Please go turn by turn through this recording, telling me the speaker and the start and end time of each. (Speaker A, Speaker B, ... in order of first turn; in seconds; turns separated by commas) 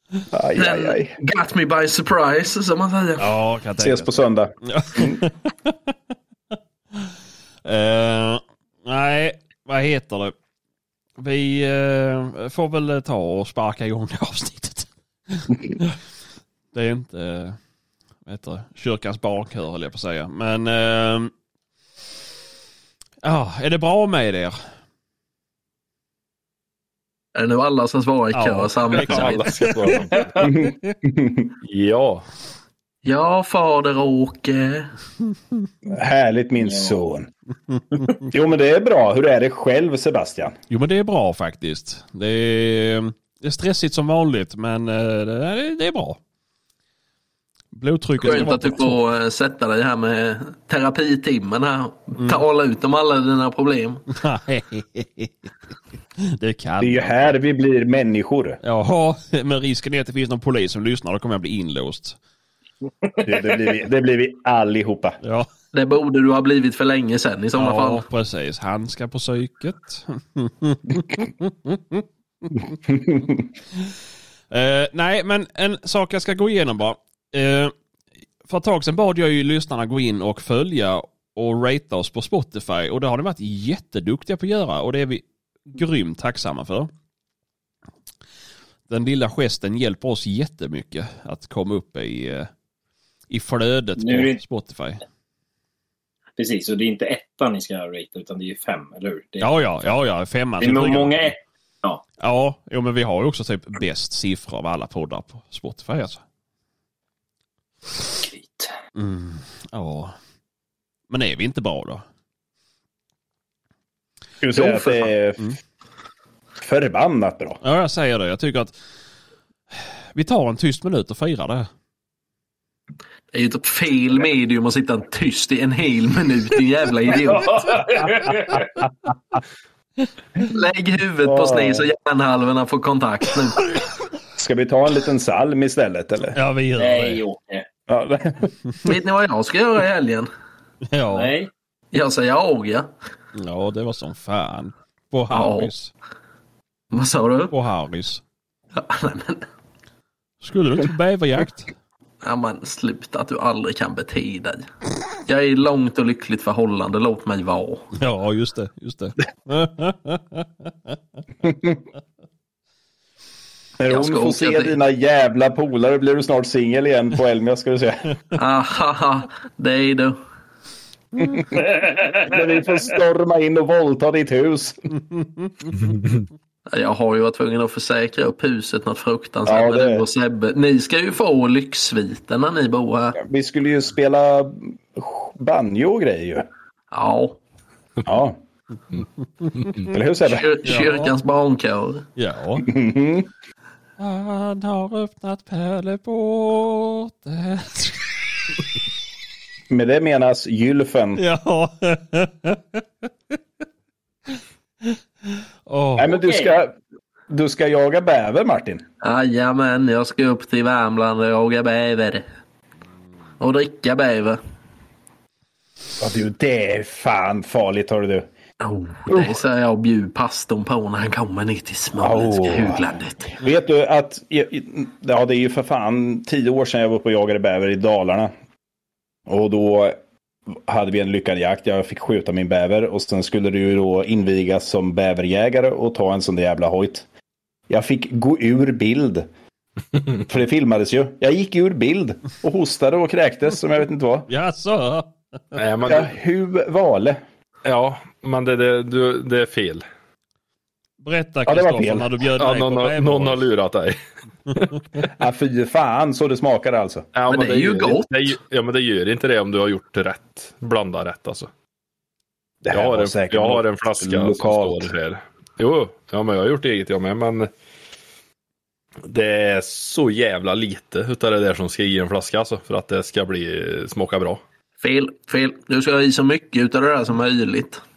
Speaker A: 0.3-1.2, Speaker B: 0.6-3.2, Speaker C: 3.2-5.7, Speaker A: 3.8-5.2, Speaker C: 7.6-10.3, Speaker C: 11.2-16.0, Speaker C: 16.7-17.6, Speaker C: 18.2-21.3, Speaker C: 23.2-24.5, Speaker B: 27.3-29.4, Speaker C: 28.3-30.6, Speaker D: 28.9-30.4, Speaker A: 30.4-31.5, Speaker D: 31.6-32.2, Speaker B: 33.0-34.9, Speaker A: 35.9-37.3, Speaker E: 36.7-36.9, Speaker A: 38.3-40.5, Speaker C: 40.7-46.2, Speaker C: 47.7-49.0, Speaker B: 48.2-54.1, Speaker C: 54.1-55.5, Speaker C: 56.2-57.2, Speaker A: 56.8-58.6, Speaker C: 58.6-62.2, Speaker A: 63.2-65.2, Speaker C: 65.2-65.5, Speaker B: 65.7-68.0, Speaker C: 67.5-72.0, Speaker A: 72.9-73.3, Speaker C: 74.5-77.7, Speaker C: 78.5-86.9, Speaker C: 88.9-92.5, Speaker C: 93.3-95.0, Speaker E: 94.0-94.4, Speaker E: 96.4-99.5, Speaker C: 99.4-101.3, Speaker E: 100.6-102.0, Speaker C: 102.2-106.2, Speaker E: 108.2-108.7, Speaker C: 108.9-110.1, Speaker C: 111.1-112.0, Speaker A: 114.4-115.5, Speaker B: 114.5-115.1, Speaker A: 116.6-117.6, Speaker C: 117.6-118.8, Speaker C: 119.7-121.7, Speaker B: 123.3-127.7, Speaker E: 127.2-128.7, Speaker B: 130.4-133.7, Speaker A: 131.2-131.9, Speaker A: 134.3-136.4, Speaker C: 136.3-137.2, Speaker E: 136.8-137.7, Speaker A: 137.9-138.5, Speaker B: 138.8-140.3, Speaker C: 140.9-141.3, Speaker E: 141.1-141.5, Speaker B: 141.9-142.9, Speaker C: 143.3-145.9, Speaker B: 145.3-145.7, Speaker B: 146.9-147.5, Speaker C: 147.5-148.2, Speaker B: 148.8-149.4, Speaker C: 150.4-151.7, Speaker B: 152.2-157.9, Speaker C: 157.9-160.9, Speaker A: 161.4-161.8, Speaker A: 163.8-168.2, Speaker B: 163.9-164.8, Speaker B: 168.3-170.2, Speaker A: 172.2-174.8, Speaker D: 175.8-176.2, Speaker B: 176.7-183.2, Speaker A: 179.4-180.0, Speaker A: 183.2-186.5, Speaker B: 186.9-187.4, Speaker A: 188.0-188.4, Speaker D: 189.6-189.9, Speaker A: 189.9-190.6, Speaker B: 190.2-192.1, Speaker C: 190.6-191.1, Speaker C: 192.2-192.7, Speaker A: 192.6-193.3, Speaker C: 194.0-198.1, Speaker A: 199.7-201.2, Speaker C: 201.2-202.6, Speaker C: 205.7-206.2, Speaker A: 206.0-206.7, Speaker E: 206.2-206.6, Speaker A: 207.3-208.8, Speaker B: 209.0-212.2, Speaker B: 213.4-214.4, Speaker A: 216.0-218.3, Speaker B: 218.6-223.4, Speaker A: 219.1-219.4, Speaker A: 222.0-222.9, Speaker A: 223.4-228.3, Speaker A: 229.3-230.0, Speaker A: 230.5-237.1, Speaker A: 237.7-239.3, Speaker A: 240.3-244.3, Speaker C: 244.3-245.6, Speaker D: 245.6-246.1, Speaker A: 245.8-247.2, Speaker D: 247.7-249.8, Speaker C: 251.0-253.4, Speaker A: 251.5-252.1, Speaker D: 252.3-254.0, Speaker A: 255.1-257.1, Speaker D: 257.1-261.5, Speaker B: 257.3-258.4, Speaker A: 262.6-264.9, Speaker D: 262.7-267.5, Speaker D: 269.1-274.4, Speaker B: 274.8-277.8